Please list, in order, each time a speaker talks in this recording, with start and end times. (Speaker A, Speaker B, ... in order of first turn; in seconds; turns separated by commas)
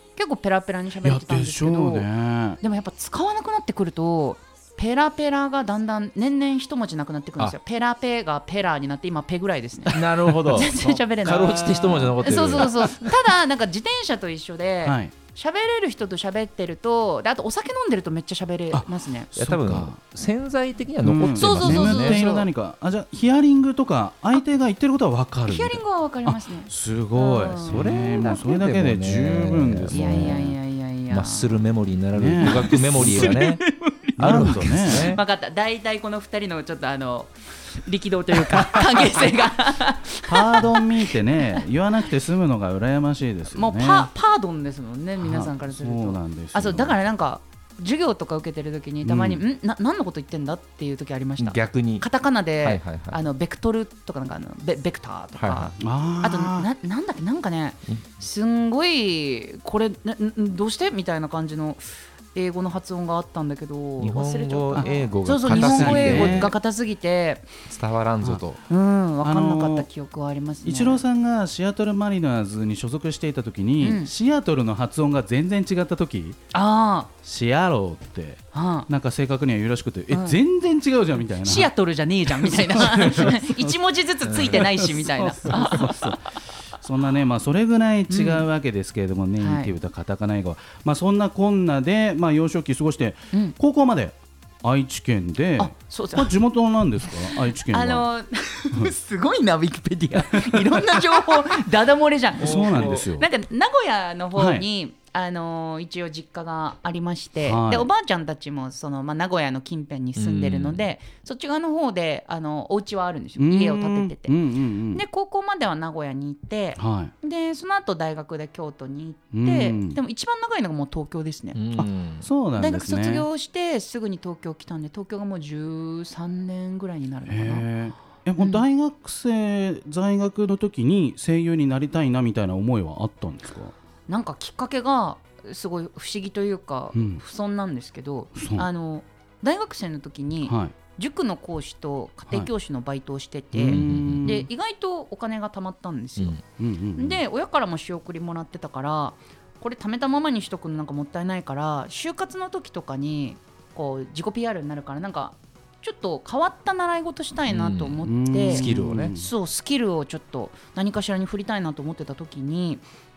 Speaker A: 0.1-2.1, Speaker B: 1.0-2.6, Speaker A: 2.6-19.3, Speaker C: 9.8-13.1, Speaker B: 10.7-11.0, Speaker B: 11.7-12.1, Speaker B: 14.8-15.1, Speaker B: 18.7-20.0, Speaker C: 19.3-22.2, Speaker B: 21.0-30.6, Speaker A: 21.3-22.5, Speaker A: 25.5-28.4, Speaker C: 27.6-30.5, Speaker A: 29.9-31.6, Speaker C: 31.1-33.6, Speaker B: 32.1-33.4, Speaker A: 32.4-40.8, Speaker B: 34.1-35.1, Speaker C: 34.2-35.2, Speaker B: 40.2-44.1, Speaker A: 43.5-67.5, Speaker B: 45.2-47.0, Speaker B: 49.0-49.4, Speaker C: 51.4-52.0, Speaker C: 52.6-53.2, Speaker C: 55.3-55.7, Speaker B: 55.8-56.7, Speaker C: 64.0-66.5, Speaker B: 64.7-66.5, Speaker C: 67.7-68.6, Speaker A: 68.7-71.0, Speaker B: 69.2-69.9, Speaker B: 70.6-76.4, Speaker A: 73.8-74.1, Speaker A: 76.5-77.1, Speaker B: 77.2-81.7, Speaker A: 78.5-78.9, Speaker A: 80.1-80.4, Speaker A: 81.4-86.3, Speaker B: 82.3-83.7, Speaker C: 84.2-84.9, Speaker B: 84.4-98.1, Speaker A: 88.1-88.5, Speaker A: 89.4-89.7, Speaker A: 95.6-96.3, Speaker A: 97.1-114.4, Speaker B: 100.5-100.8, Speaker B: 102.4-103.3, Speaker C: 102.4-103.0, Speaker B: 104.3-104.7, Speaker B: 107.4-107.9, Speaker C: 110.2-110.9, Speaker B: 113.4-115.0, Speaker A: 114.9-121.6, Speaker B: 116.8-117.1, Speaker B: 119.3-120.0, Speaker C: 121.5-122.2, Speaker B: 121.8-123.3, Speaker A: 122.6-127.7, Speaker B: 127.3-133.7, Speaker A: 128.4-128.6, Speaker A: 134.1-146.4, Speaker B: 136.9-137.2, Speaker B: 138.3-138.7, Speaker B: 140.4-140.7, Speaker B: 143.5-144.5, Speaker C: 143.7-144.3, Speaker B: 146.6-147.2, Speaker A: 146.9-162.8, Speaker C: 157.5-159.1, Speaker B: 158.0-159.3